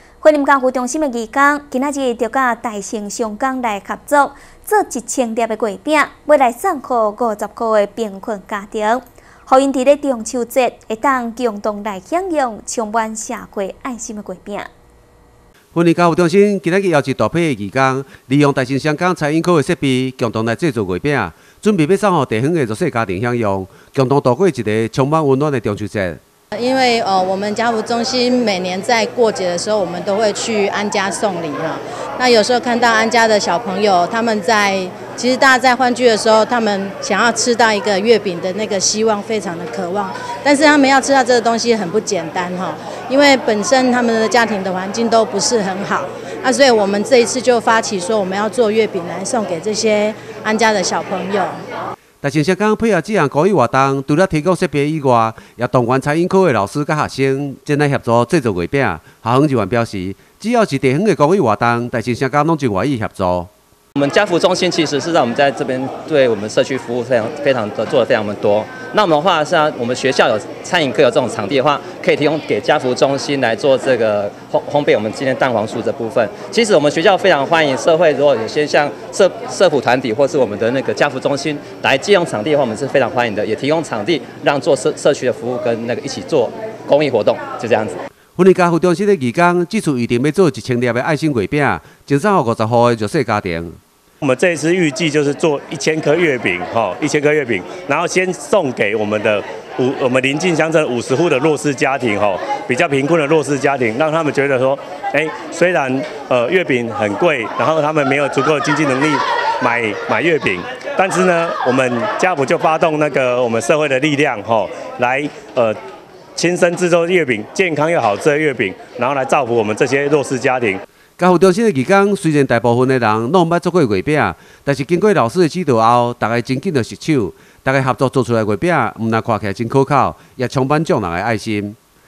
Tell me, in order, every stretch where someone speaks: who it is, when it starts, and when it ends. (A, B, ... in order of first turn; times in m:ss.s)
0:00.2-0:14.7 A
0:15.7-0:26.2 B
0:26.5-0:51.6 C
0:52.2-1:03.5 B
1:04.0-1:28.0 D
1:28.4-1:33.8 B
1:34.2-1:55.8 E
1:56.4-2:00.8 E
2:01.2-2:11.8 B